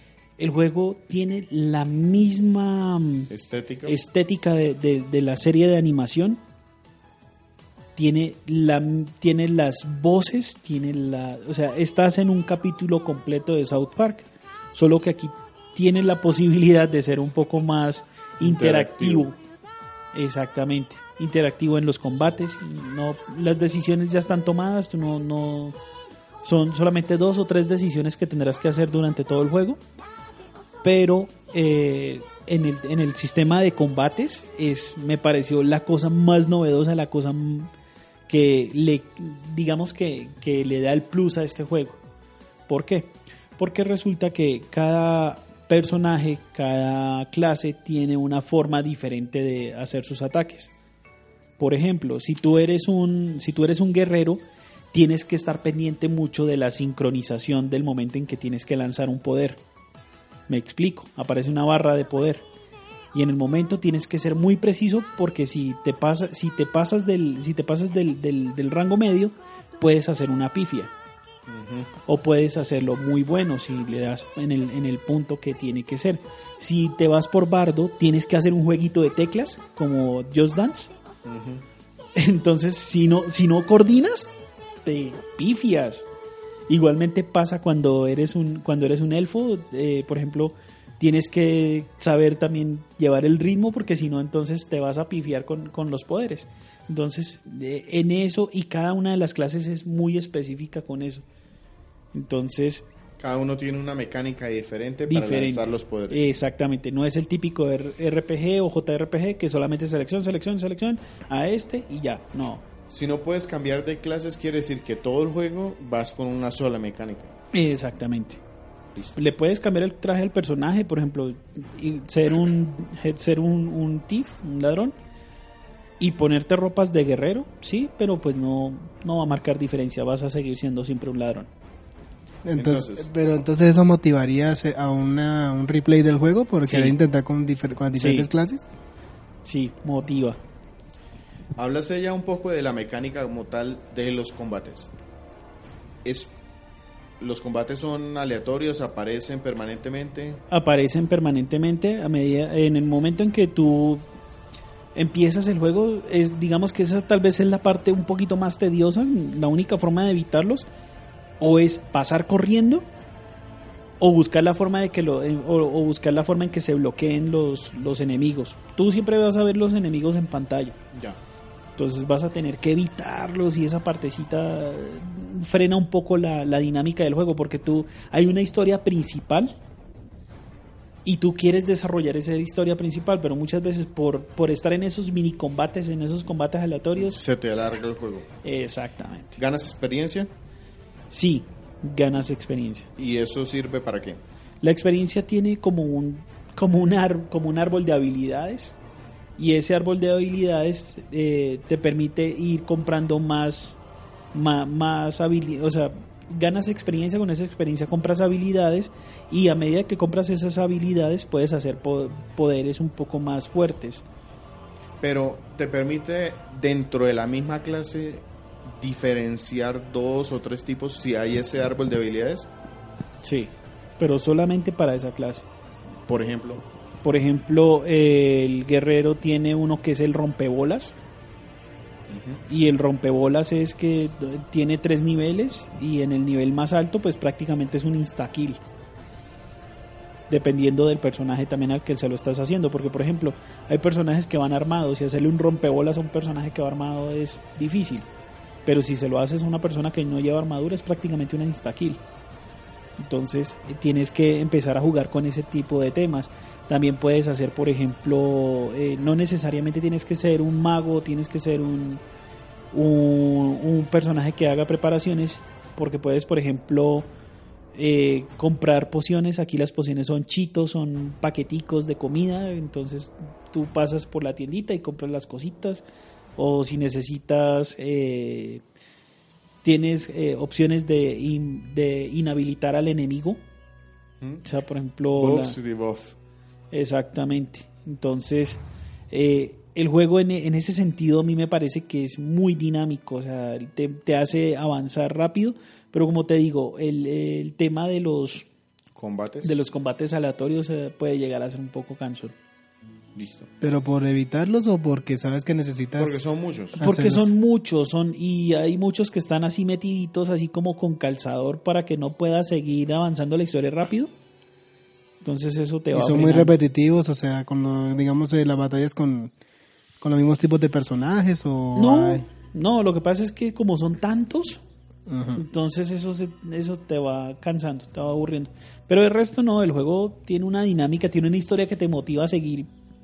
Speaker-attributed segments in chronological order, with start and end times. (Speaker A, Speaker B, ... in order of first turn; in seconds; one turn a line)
Speaker A: 0.4-3.3
Speaker B: 3.3-4.0
Speaker A: 3.9-6.4
Speaker A: 8.0-19.4
Speaker B: 18.4-19.3
Speaker A: 20.1-25.8
Speaker A: 26.4-29.8
Speaker A: 30.8-37.7
Speaker A: 38.3-42.0
Speaker A: 42.7-50.7
Speaker A: 51.6-54.4
Speaker A: 54.9-59.6
Speaker A: 60.5-62.5
Speaker A: 63.1-70.9
Speaker B: 71.5-71.9
Speaker A: 72.1-80.9
Speaker B: 81.2-81.6
Speaker A: 82.2-84.3
Speaker A: 84.8-86.0
Speaker A: 86.7-101.2
Speaker A: 102.1-102.9
Speaker B: 103.2-106.3
Speaker A: 105.1-112.7
Speaker B: 112.9-117.3
Speaker A: 117.5-118.4
Speaker A: 119.2-124.9
Speaker A: 126.0-131.5
Speaker C: 132.4-138.7
Speaker B: 132.6-133.1
Speaker A: 136.6-136.9
Speaker A: 138.0-138.3
Speaker A: 139.4-140.4
Speaker B: 141.6-144.9
Speaker B: 146.0-146.3
Speaker B: 147.2-150.4
Speaker A: 150.5-154.1
Speaker A: 154.9-160.7
Speaker A: 161.4-162.8
Speaker A: 164.0-170.8
Speaker B: 170.9-171.2
Speaker A: 171.8-179.6
Speaker A: 181.1-187.2
Speaker B: 187.1-188.3
Speaker A: 188.4-189.4
Speaker B: 189.4-190.3
Speaker A: 191.1-192.9
Speaker B: 193.0-194.2
Speaker A: 194.6-198.8
Speaker A: 199.4-203.8
Speaker A: 204.3-214.0
Speaker B: 215.0-222.5
Speaker A: 223.2-225.5
Speaker B: 226.1-226.6
Speaker A: 227.0-230.9
Speaker B: 232.1-232.4
Speaker A: 232.5-238.6
Speaker A: 240.3-248.1
Speaker A: 248.7-252.0
Speaker A: 253.0-262.0
Speaker A: 262.7-267.1
Speaker A: 267.8-275.8
Speaker A: 276.4-278.6
Speaker A: 279.6-283.4
Speaker A: 284.4-285.6
Speaker B: 285.1-286.2
Speaker A: 286.7-298.5
Speaker B: 298.9-299.6
Speaker A: 299.4-302.4
Speaker B: 303.1-303.5
Speaker C: 303.6-306.2
Speaker B: 306.0-306.8
Speaker C: 306.8-307.3
Speaker A: 306.8-314.1
Speaker A: 315.2-316.5
Speaker C: 315.9-319.3
Speaker C: 320.0-322.3
Speaker A: 321.8-324.6
Speaker C: 325.1-325.4
Speaker A: 325.4-332.7